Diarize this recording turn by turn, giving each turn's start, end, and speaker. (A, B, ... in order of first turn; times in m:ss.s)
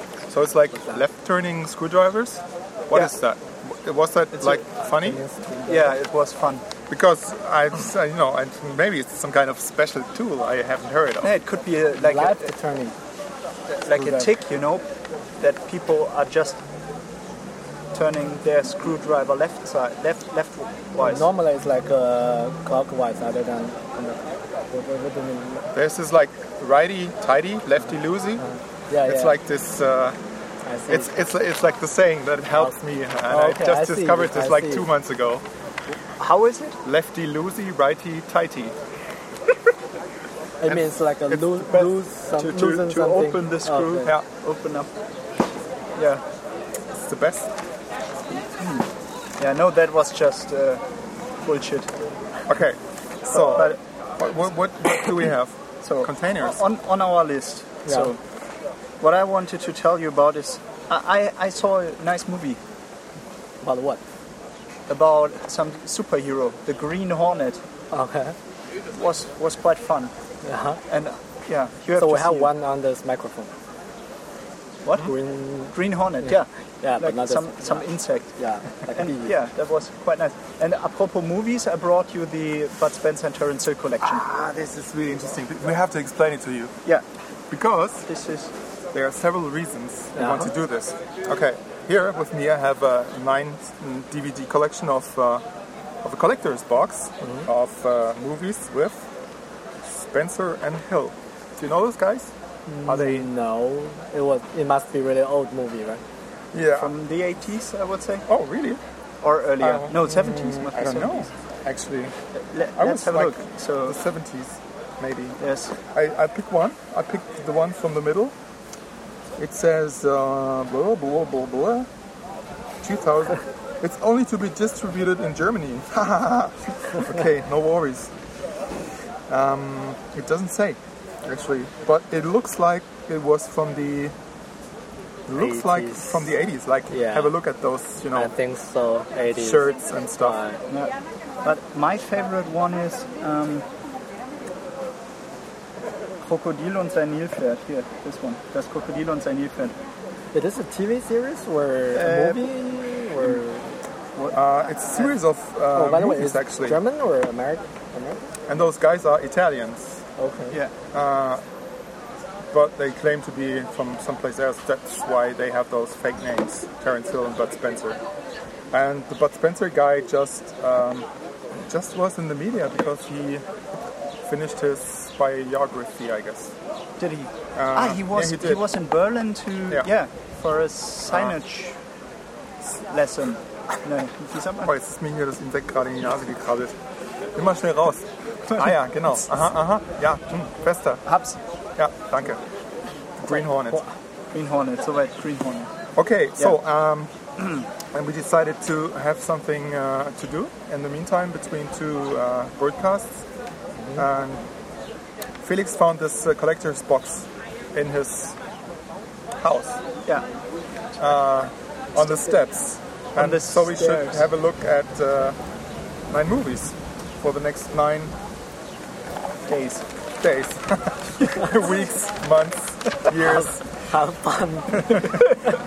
0:00.3-0:05.2 A
0:05.0-0:05.9 B
0:05.7-0:06.6 C
0:06.9-0:11.3 A
0:11.2-0:12.5 C
0:12.0-0:13.0 B
0:13.7-0:14.8 C
0:14.0-0:14.2 B
0:15.4-0:16.6 C
0:17.9-0:21.3 C
0:21.0-0:25.6 B
0:25.7-0:28.4 A
0:28.4-0:29.4 B
0:29.0-0:30.2 A
0:30.7-0:31.1 B
0:30.9-0:35.4 A
0:33.3-0:34.9 B
0:36.2-0:36.8 C
0:36.8-0:38.7 A
0:40.6-0:44.1 B
0:40.7-0:41.4 A
0:41.6-0:44.9 C
0:46.0-0:46.2 C
0:46.9-0:47.5 A
0:48.4-0:48.8 C
0:49.4-0:50.8 C
0:51.4-0:51.9 C
0:52.5-0:56.6 A
0:53.4-0:53.8 C
0:55.8-0:58.2 C
0:57.9-0:58.1 B
0:59.0-1:02.6 C
1:03.6-1:04.0 B
1:04.9-1:07.6 C
1:07.9-1:08.4 B
1:08.9-1:10.1 C
1:10.4-1:10.8 B
1:10.9-1:12.5 C
1:12.0-1:13.5 B
1:14.8-1:15.1 C
1:15.0-1:16.3 B
1:15.7-1:18.3 C
1:16.8-1:19.4 B
1:18.9-1:24.2 C
1:24.1-1:26.8 A
1:27.5-1:28.1 A
1:28.1-1:28.5 C
1:28.9-1:35.4 A
1:30.2-1:30.5 B
1:36.0-1:39.1 A
1:39.8-1:42.3 A
1:42.7-1:46.0 B
1:42.8-1:43.3 A
1:46.5-1:46.9 A
1:46.8-1:48.2 C
1:48.3-1:48.8 A
1:49.2-1:51.3 C
1:49.6-1:52.1 A
1:52.4-1:54.0 C
1:52.8-1:55.4 A
1:55.4-1:55.7 C
1:55.9-1:58.3 A
1:59.4-2:01.9 A
2:02.8-2:08.1 A
2:09.3-2:14.1 A
2:15.3-2:18.3 A
2:15.4-2:16.2 B
2:16.9-2:17.3 B
2:18.1-2:20.6 B
2:19.4-2:20.4 A
2:20.7-2:23.7 C
2:26.2-2:29.8 C
2:30.3-2:33.7 B
2:31.9-2:32.5 C
2:34.2-2:35.1 C
2:34.3-2:36.8 A
2:35.7-2:38.2 B
2:38.5-2:40.0 A
2:40.2-2:40.6 B
2:40.9-2:41.4 A
2:42.5-2:48.0 A
2:48.7-2:53.4 A
2:54.2-2:56.5 A
2:57.0-3:01.8 C
2:57.6-2:58.6 A
3:02.8-3:04.7 C
3:04.6-3:06.8 A
3:07.4-3:11.0 A
3:08.5-3:08.8 C
3:11.1-3:11.4 C
3:11.8-3:12.4 A
3:13.2-3:13.8 A
3:14.3-3:15.7 C
3:16.0-3:17.1 A
3:17.9-3:23.2 A
3:24.0-3:24.5 A
3:25.4-3:28.4 A
3:29.4-3:29.8 A
3:31.0-3:35.4 A
3:33.2-3:34.2 C
3:36.1-3:38.1 A
3:39.5-3:39.8 C
3:40.2-3:43.6 A
3:43.1-3:45.2 B